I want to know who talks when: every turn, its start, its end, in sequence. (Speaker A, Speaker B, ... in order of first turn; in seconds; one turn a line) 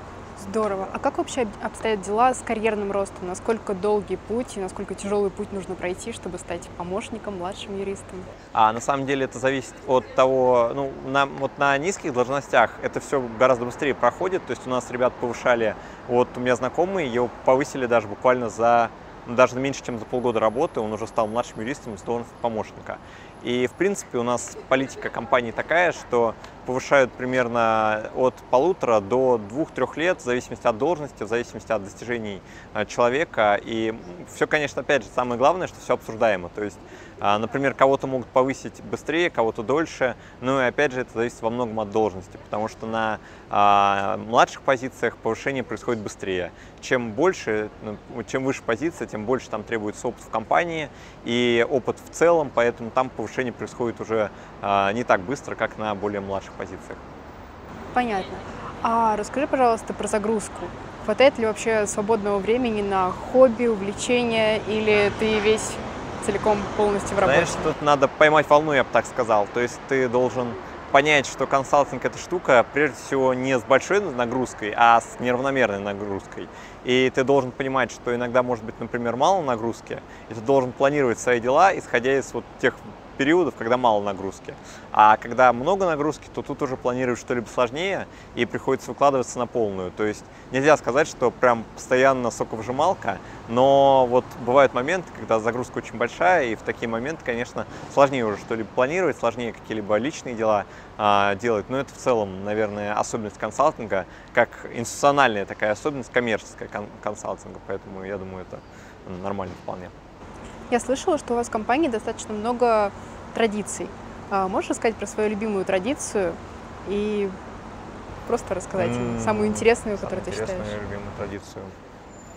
Speaker A: 0.4-8.2
Speaker B: 8.5-57.0
Speaker A: 57.9-67.7
Speaker B: 67.2-109.9
Speaker A: 110.7-117.3
Speaker A: 118.2-120.8
Speaker B: 118.8-121.7